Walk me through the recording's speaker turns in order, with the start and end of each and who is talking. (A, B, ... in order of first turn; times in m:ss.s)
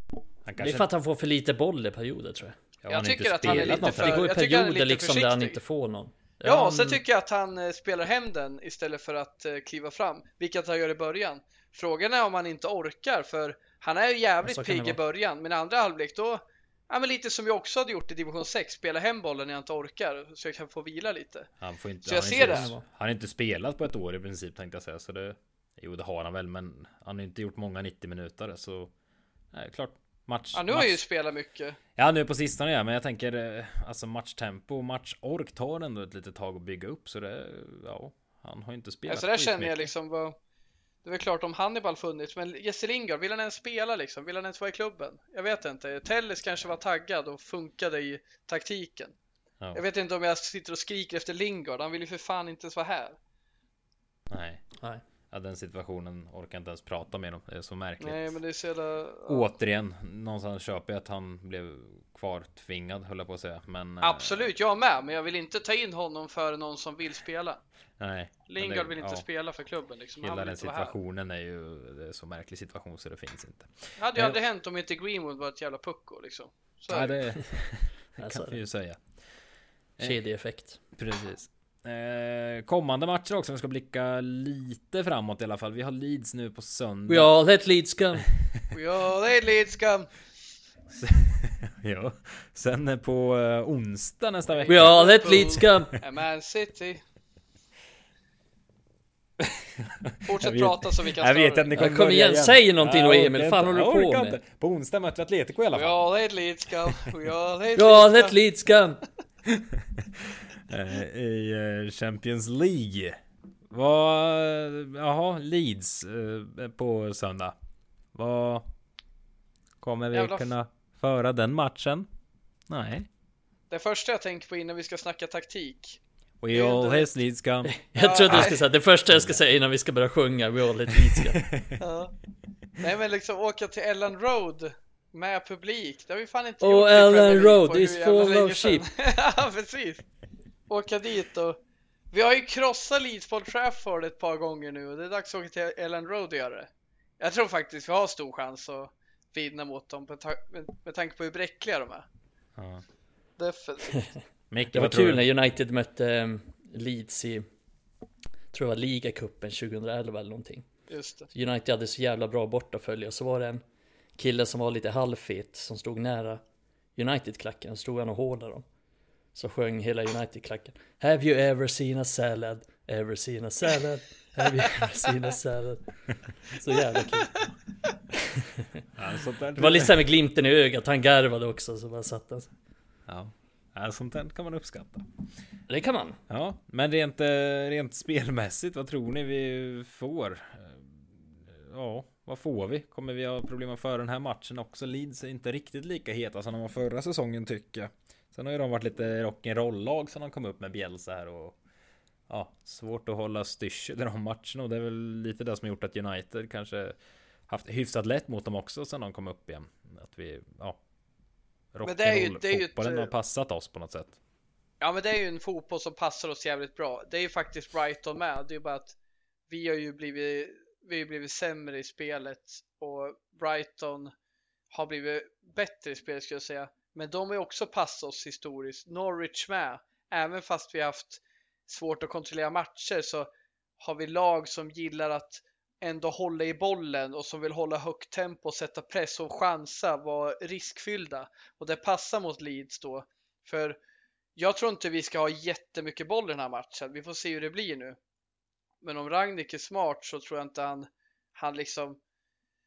0:00.4-0:00.8 A
0:00.6-0:02.6 B
0:02.8-0:04.3 A
0:02.9-0:05.6 C
0:03.4-0:07.0 B
0:06.4-0:21.5 C
0:14.4-0:15.0 B
0:21.6-0:28.9 A
0:22.0-0:22.7 C
0:22.2-0:22.8 B
0:29.5-0:31.0 A
0:30.5-0:31.8 C
0:32.0-0:39.9 A
0:39.1-0:40.4 C
0:41.0-0:49.1 C
0:49.7-0:53.2 C
0:54.3-0:54.6 A
0:55.3-0:58.4 A
0:58.0-0:59.5 C
0:59.3-1:04.5 A
1:04.0-1:07.6 C
1:08.0-1:09.2 A
1:08.5-1:10.9 C
1:10.2-1:14.3 A
1:14.0-1:17.2 C
1:16.9-1:19.2 A
1:18.2-1:18.6 B
1:20.0-1:20.8 B
1:20.9-1:27.3 A
1:27.1-1:28.2 B
1:28.7-1:30.1 C
1:30.9-1:36.0 A
1:34.5-1:37.0 C
1:34.7-1:35.9 B
1:39.4-1:46.0 A
1:40.2-1:41.7 C
1:41.7-1:44.4 B
1:45.7-1:48.4 C
1:47.8-1:49.0 B
1:49.4-1:53.2 A
1:53.7-1:57.5 A
1:58.1-1:58.7 A
1:59.8-2:02.1 A
2:00.1-2:00.5 C
2:02.7-2:03.1 A
2:03.7-2:06.0 C
2:06.4-2:08.5 A
2:06.5-2:07.1 C
2:07.7-2:11.5 B
2:08.0-2:08.5 C
2:09.1-2:09.4 A
2:11.1-2:11.7 A
2:11.8-2:12.1 C
2:12.8-2:20.0 C
2:16.6-2:18.8 B
2:20.7-2:21.6 C
2:22.1-2:32.0 C
2:32.6-2:32.8 A
2:33.4-2:34.1 C
2:34.5-2:35.2 A
2:34.7-2:37.4 B
2:38.5-2:40.7 B
2:40.9-2:41.3 C
2:41.3-2:43.6 B
2:44.2-2:46.4 B
2:47.0-2:48.6 B
2:49.3-2:55.9 B
2:56.5-2:57.4 B
2:58.1-2:58.8 B
2:59.0-3:00.0 A
2:59.6-3:02.5 B
3:03.1-3:05.1 A
3:05.7-3:06.2 B
3:06.3-3:21.6 A
3:22.3-3:27.0 A
3:27.5-3:30.8 A
3:31.7-3:34.2 A
3:31.8-3:33.1 C
3:34.8-3:38.9 C
3:39.5-3:44.1 C
3:44.7-4:03.8 C
4:04.4-4:08.0 C
4:08.8-4:12.0 C